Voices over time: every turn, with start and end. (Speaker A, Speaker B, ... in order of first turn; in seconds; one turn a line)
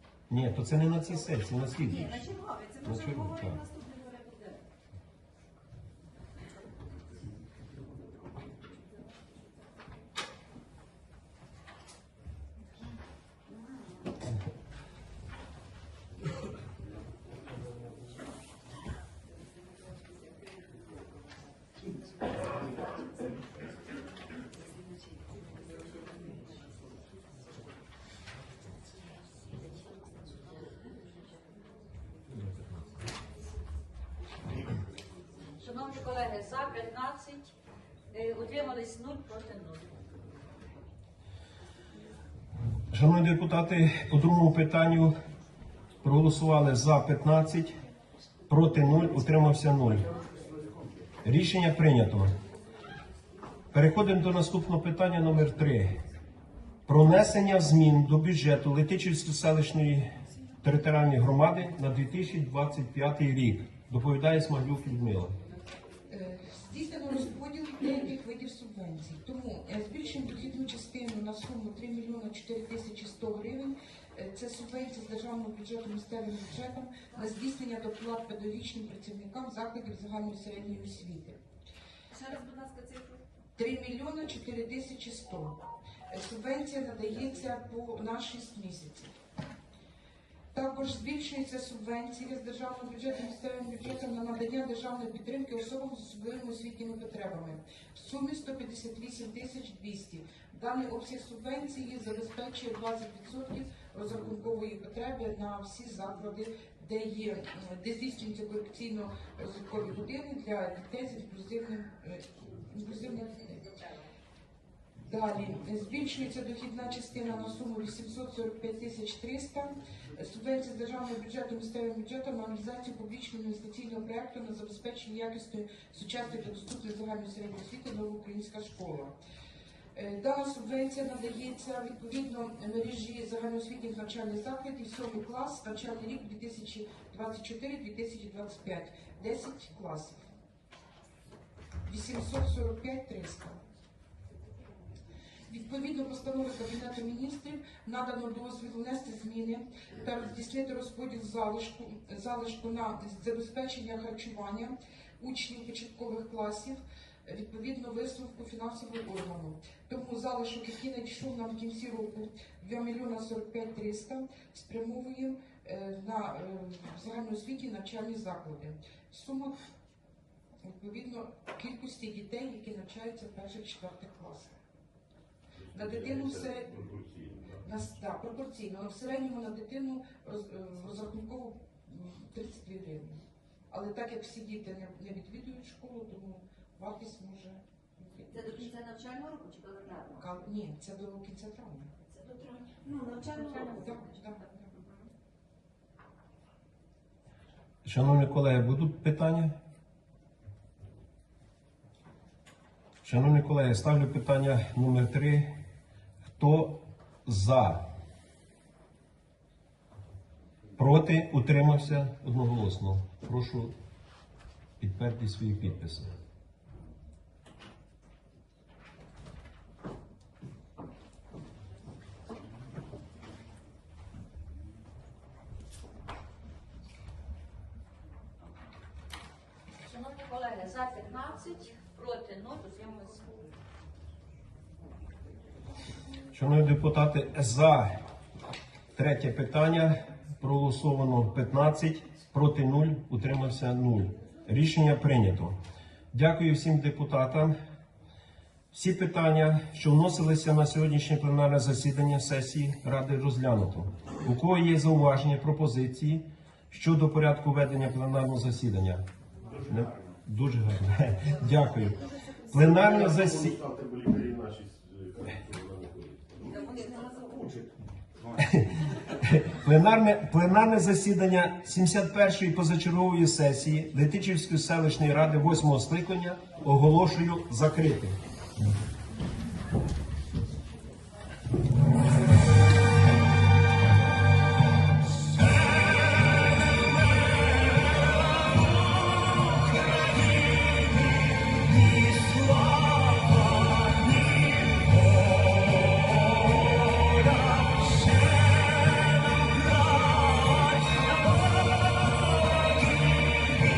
Speaker A: 0.3-3.6
Speaker A: 32.4-32.7
Speaker B: 35.6-37.5
Speaker B: 38.1-39.9
Speaker A: 42.9-45.1
Speaker A: 46.0-47.8
Speaker A: 48.5-50.1
Speaker A: 51.2-52.4
Speaker A: 53.7-56.0
Speaker A: 56.9-60.1
Speaker A: 60.6-65.4
Speaker C: 66.1-81.4
Speaker B: 82.2-83.0
Speaker C: 83.6-89.1
Speaker C: 90.5-113.7
Speaker C: 115.0-129.1
Speaker C: 129.9-140.3
Speaker C: 141.9-143.6
Speaker C: 145.5-169.6
Speaker C: 170.6-174.5
Speaker C: 175.7-176.8
Speaker D: 175.8-176.2
Speaker D: 176.8-177.5
Speaker C: 177.6-188.7
Speaker B: 188.3-190.2
Speaker C: 190.1-191.9
Speaker B: 192.1-193.9
Speaker C: 193.2-194.6
Speaker A: 197.8-199.6
Speaker A: 203.0-205.5
Speaker A: 206.2-207.8
Speaker A: 210.8-213.7
Speaker A: 214.8-216.1
Speaker B: 229.8-233.2
Speaker A: 236.3-237.9
Speaker A: 238.9-245.6
Speaker A: 246.1-247.6
Speaker A: 248.7-259.1
Speaker A: 259.7-263.6
Speaker B: 261.5-261.9
Speaker D: 262.6-266.6
Speaker B: 266.5-267.1
Speaker D: 267.1-267.7
Speaker A: 268.4-278.2
Speaker A: 293.8-294.7
Speaker A: 297.5-301.2